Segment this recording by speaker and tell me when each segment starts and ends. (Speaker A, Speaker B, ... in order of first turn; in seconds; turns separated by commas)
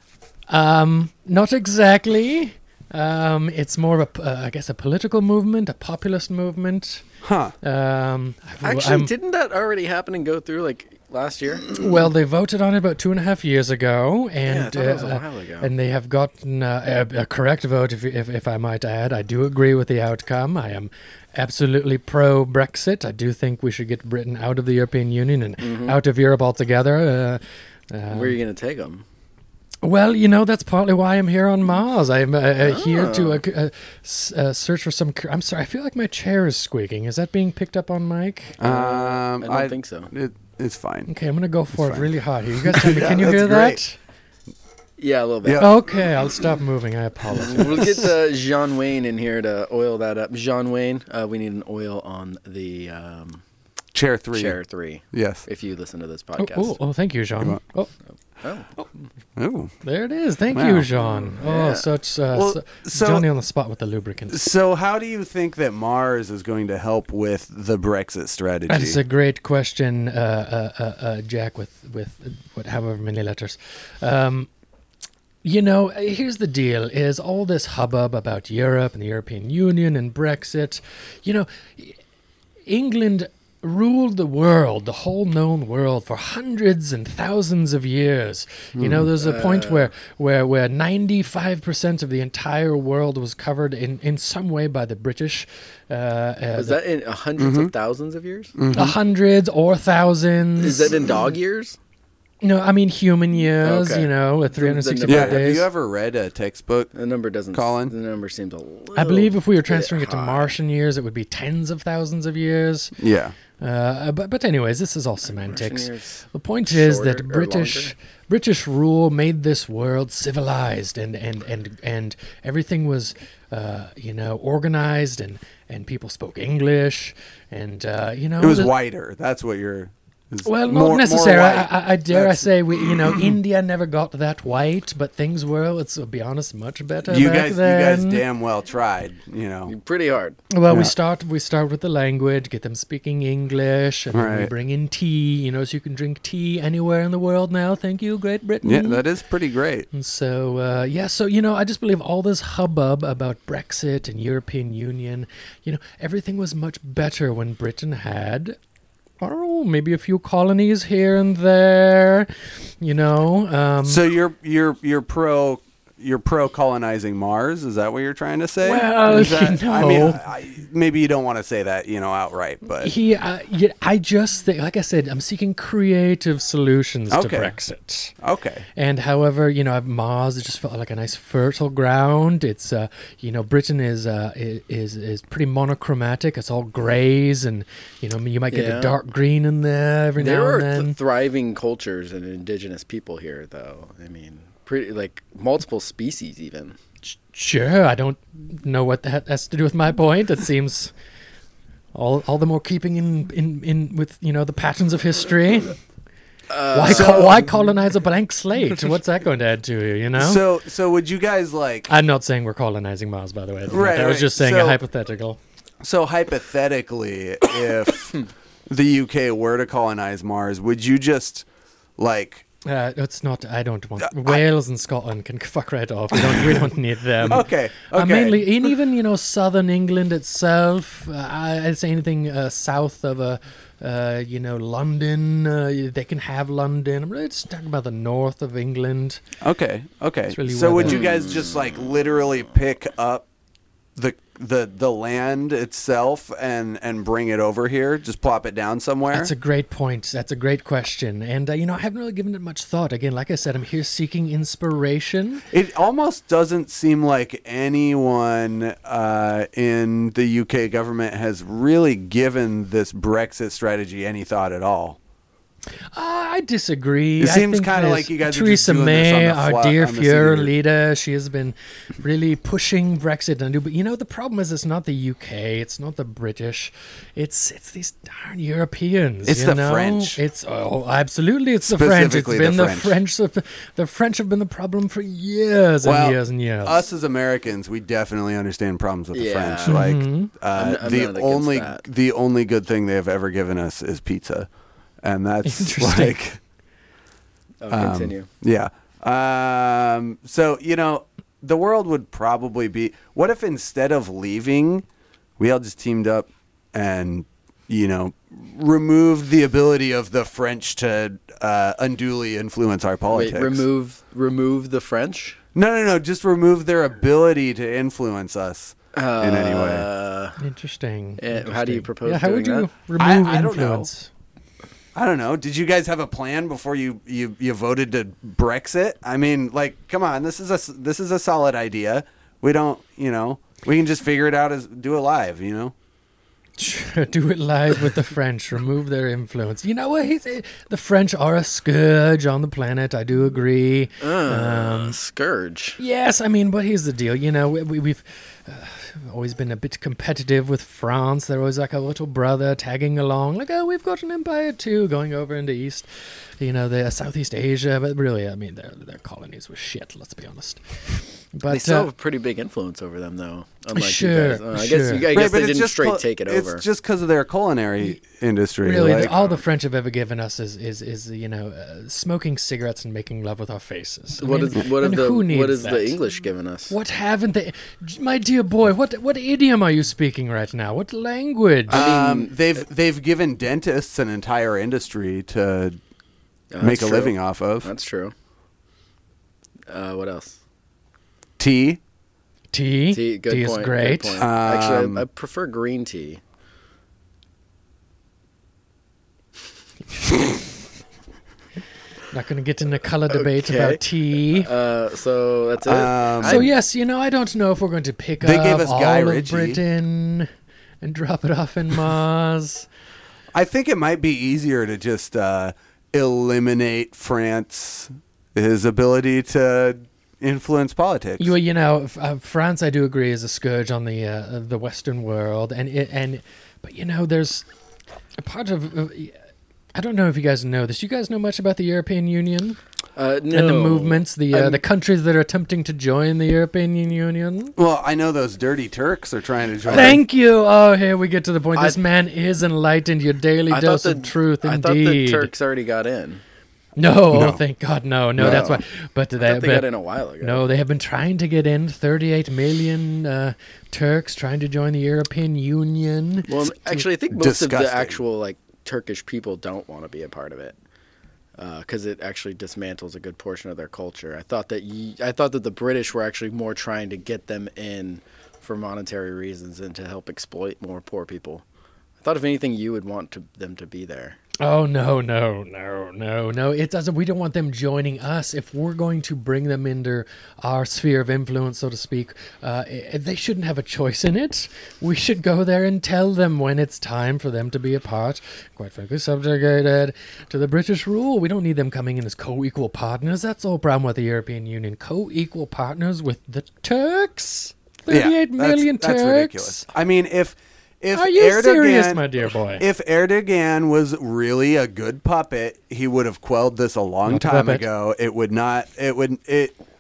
Speaker A: 0.5-7.0, Speaker B: 7.2-7.5, Speaker A: 7.6-9.1, Speaker C: 8.6-11.7, Speaker A: 11.8-28.4, Speaker C: 14.4-15.7, Speaker C: 25.6-26.0, Speaker C: 28.1-29.1, Speaker A: 29.8-38.6, Speaker C: 32.6-33.4, Speaker B: 38.6-41.1, Speaker C: 38.6-40.1, Speaker A: 41.1-44.0, Speaker B: 41.8-42.1, Speaker B: 42.6-43.8, Speaker C: 45.0-45.7, Speaker B: 45.4-45.8, Speaker A: 45.6-48.0, Speaker C: 47.4-53.4, Speaker B: 53.9-54.6, Speaker C: 54.3-56.8, Speaker B: 55.1-55.5, Speaker A: 56.4-57.9, Speaker C: 58.4-58.7, Speaker B: 59.4-59.7, Speaker A: 59.8-64.4, Speaker B: 60.5-60.9, Speaker C: 61.4-61.9, Speaker B: 62.3-63.3, Speaker B: 64.3-69.0, Speaker A: 68.7-74.5, Speaker A: 75.4-82.0, Speaker A: 82.7-96.8, Speaker B: 88.8-89.1, Speaker C: 89.2-89.9, Speaker C: 96.5-98.6, Speaker B: 97.4-97.7, Speaker B: 98.6-99.0, Speaker A: 98.7-100.9, Speaker C: 100.6-101.8, Speaker A: 102.4-105.7, Speaker C: 103.6-105.6, Speaker B: 105.1-106.9, Speaker C: 106.9-110.6, Speaker B: 107.5-107.9, Speaker A: 109.0-113.0, Speaker B: 113.0-113.3, Speaker A: 113.6-128.7, Speaker C: 115.5-117.9, Speaker B: 128.4-133.4, Speaker A: 130.4-138.2, Speaker B: 137.1-139.7, Speaker C: 139.7-140.4, Speaker A: 140.5-149.0, Speaker B: 140.7-140.9, Speaker B: 144.1-144.5, Speaker B: 148.6-149.9, Speaker A: 149.9-158.6, Speaker A: 159.2-162.3, Speaker A: 162.8-164.0, Speaker B: 163.8-172.9, Speaker A: 168.6-170.2, Speaker A: 172.8-178.2, Speaker B: 177.1-177.6, Speaker B: 178.2-178.7, Speaker A: 178.8-191.0, Speaker C: 188.5-189.0, Speaker C: 190.2-196.8, Speaker A: 197.1-200.9, Speaker A: 201.9-205.8, Speaker C: 206.5-207.4, Speaker A: 206.7-210.4, Speaker B: 206.8-207.4, Speaker B: 210.2-211.9, Speaker A: 211.9-215.4, Speaker B: 213.7-214.8, Speaker B: 215.8-221.5, Speaker B: 222.0-222.5, Speaker A: 222.7-239.2, Speaker B: 224.0-224.4, Speaker B: 226.1-226.6, Speaker B: 227.3-228.7, Speaker B: 239.4-243.2, Speaker A: 240.3-241.0, Speaker C: 240.8-241.7, Speaker B: 244.0-249.3, Speaker A: 249.1-255.4, Speaker B: 255.5-265.0, Speaker A: 265.9-286.8, Speaker B: 267.2-270.5, Speaker B: 279.3-280.2, Speaker B: 281.6-282.9, Speaker B: 285.8-294.5, Speaker C: 289.1-289.9, Speaker A: 289.7-290.3, Speaker C: 290.5-291.8, Speaker B: 295.0-296.4, Speaker A: 295.4-296.2, Speaker C: 297.6-298.3, Speaker B: 297.7-304.9, Speaker B: 305.4-313.6, Speaker C: 313.1-315.4, Speaker B: 315.6-319.9, Speaker C: 318.9-320.4, Speaker A: 320.4-324.1, Speaker C: 321.2-322.7, Speaker B: 323.0-323.9, Speaker B: 324.9-335.7, Speaker A: 336.6-345.0, Speaker C: 344.0-345.8, Speaker A: 345.8-355.9, Speaker A: 356.4-361.9, Speaker C: 361.5-366.6, Speaker A: 363.8-365.1, Speaker B: 365.1-369.3, Speaker A: 368.6-376.0, Speaker C: 374.2-376.7, Speaker A: 376.7-381.8, Speaker C: 381.7-382.4, Speaker B: 381.7-385.8, Speaker C: 386.5-388.1, Speaker B: 386.6-387.7, Speaker C: 389.7-390.4, Speaker B: 391.4-391.8, Speaker A: 392.5-394.2, Speaker C: 392.9-396.2, Speaker B: 394.2-395.1, Speaker A: 402.1-404.5, Speaker C: 403.1-406.5, Speaker B: 405.6-406.4, Speaker A: 406.2-410.3, Speaker B: 408.2-409.6, Speaker A: 410.8-412.7, Speaker B: 413.3-421.3, Speaker A: 421.2-427.5, Speaker A: 428.2-429.2, Speaker A: 429.8-432.6, Speaker C: 433.0-434.6, Speaker A: 433.3-437.6, Speaker B: 437.6-440.0, Speaker C: 439.7-440.0, Speaker A: 439.7-445.3, Speaker C: 443.5-446.2, Speaker A: 446.8-449.7, Speaker B: 447.1-447.4, Speaker B: 448.2-448.5, Speaker C: 448.2-448.6, Speaker C: 449.2-450.4, Speaker A: 450.2-456.9, Speaker C: 456.3-460.6, Speaker B: 457.1-458.0, Speaker C: 461.4-471.4, Speaker C: 472.0-474.2, Speaker A: 474.4-499.7, Speaker B: 497.9-502.1, Speaker A: 500.9-502.6, Speaker B: 502.6-509.6, Speaker A: 507.1-507.7